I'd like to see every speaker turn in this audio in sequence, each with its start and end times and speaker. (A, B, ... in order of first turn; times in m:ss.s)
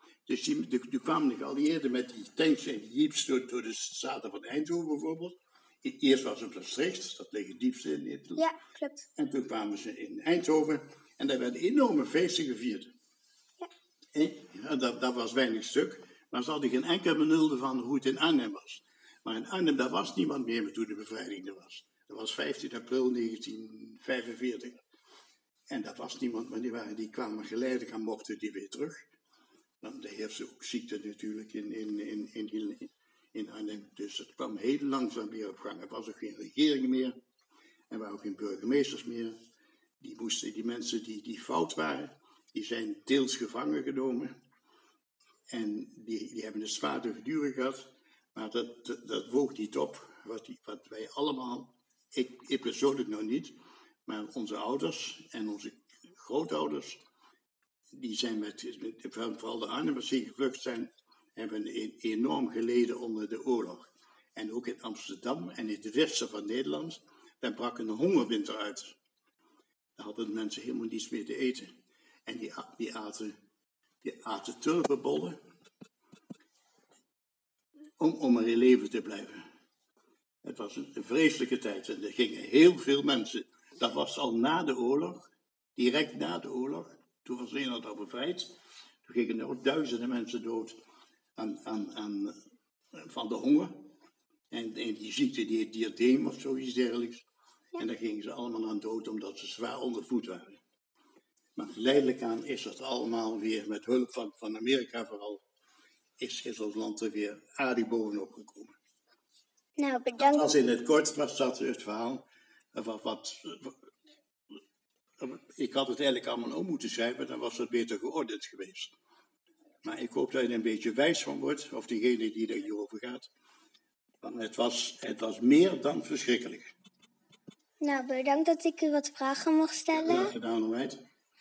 0:00.3-0:08.4 A
0:08.4-0:09.0 B
0:09.2-0:12.9 A
0:14.2-0:24.8 A
0:25.7-0:29.0 A
0:29.8-0:37.2 A
0:37.9-0:39.4 A
0:40.0-0:44.3 A
0:45.5-0:53.5 A
0:54.1-0:57.0 A
0:57.9-1:09.0 A
1:10.0-1:11.7 A
1:12.3-1:13.4 A
1:14.0-1:15.4 A
1:18.0-1:19.4 A
1:20.4-1:28.5 A
1:29.0-1:30.8 A
1:31.4-1:32.4 A
1:33.0-1:33.8 A
1:34.5-1:37.2 A
1:37.8-1:40.6 A
1:41.6-1:45.4 A
1:46.2-1:48.7 A
1:49.8-1:50.6 B
1:50.2-1:52.2 A
1:52.7-1:53.7 A
1:55.2-1:58.9 A
1:59.8-2:03.3 A
2:04.2-2:06.7 A
2:07.8-2:10.3 B
2:09.9-2:11.0 A